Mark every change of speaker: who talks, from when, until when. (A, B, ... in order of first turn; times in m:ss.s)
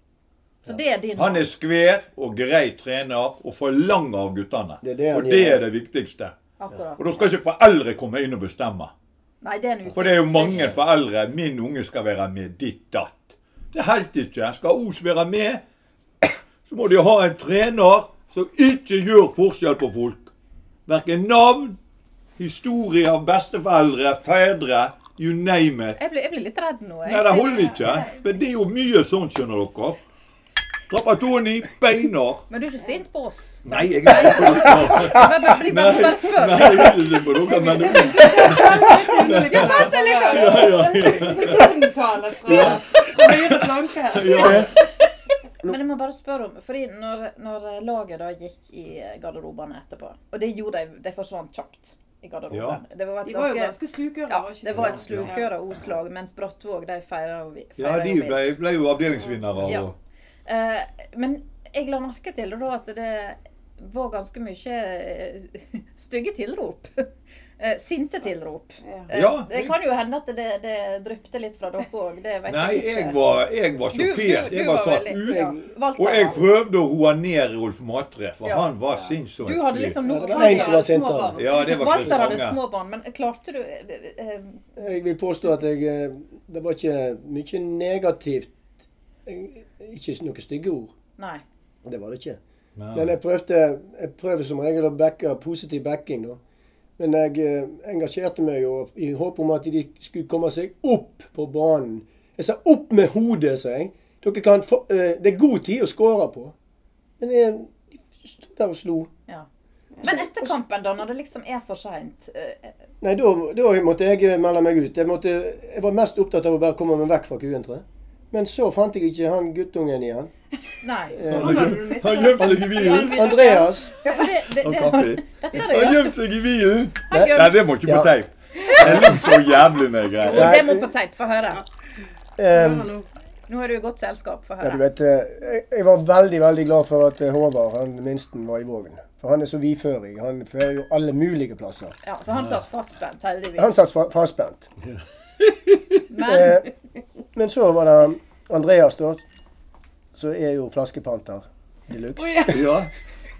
0:00.6-0:01.5 A
0:01.2-0:06.4 B
0:04.8-0:05.6 C
0:06.6-0:07.3 A
0:07.0-0:08.9 B
0:09.4-0:10.8 A
0:09.9-0:15.6 B
0:16.2-0:20.3 B
0:20.9-0:21.8 B
0:22.4-0:26.0 B
0:26.0-0:28.0 A
0:27.1-0:30.0 B
0:30.9-0:32.4 B
0:32.5-0:38.6 A
0:33.6-0:41.8 B
0:37.6-0:44.7 D
0:39.6-0:40.8 A
0:42.4-0:44.7 B
0:44.4-0:44.7 C
0:45.6-0:53.8 A
0:52.5-0:52.8 B
0:53.2-0:55.5 D
0:54.3-0:58.6 A
0:54.7-0:55.4 B
0:57.8-1:00.0 B
0:59.6-0:59.9 A
1:00.5-1:07.1 A
1:07.6-1:13.2 A
1:08.8-1:09.1 D
1:09.1-1:09.7 B
1:12.5-1:20.0 B
1:13.9-1:16.4 A
1:15.3-1:15.6 C
1:18.4-1:18.7 A
1:19.4-1:24.6 A
1:20.0-1:21.4 C
1:20.0-1:21.7 D
1:21.4-1:22.6 B
1:22.0-1:22.3 C
1:24.8-1:28.6 C
1:29.3-1:30.9 C
1:31.2-1:31.4 A
1:31.8-1:32.4 C
1:32.8-1:33.2 B
1:32.9-1:36.4 C
1:37.0-1:46.5 C
1:47.2-1:49.1 C
1:50.0-1:52.8 A
1:50.0-1:50.5 C
1:53.0-2:00.3 C
2:00.8-2:01.4 A
2:01.1-2:03.9 C
2:01.2-2:03.4 B
2:01.3-2:03.7 D
2:02.8-2:06.1 A
2:04.6-2:10.7 B
2:07.1-2:08.1 C
2:08.8-2:09.2 C
2:10.2-2:11.6 A
2:10.2-2:10.9 C
2:12.4-2:12.9 C
2:12.5-2:13.1 D
2:13.5-2:14.8 A
2:14.6-2:22.0 C
2:22.0-2:23.8 A
2:22.3-2:22.6 B
2:23.6-2:24.7 C
2:24.9-2:25.9 B
2:26.1-2:26.6 A
2:26.2-2:26.7 C
2:27.4-2:29.2 C
2:30.1-2:32.8 C
2:32.2-2:32.6 D
2:32.5-2:32.9 B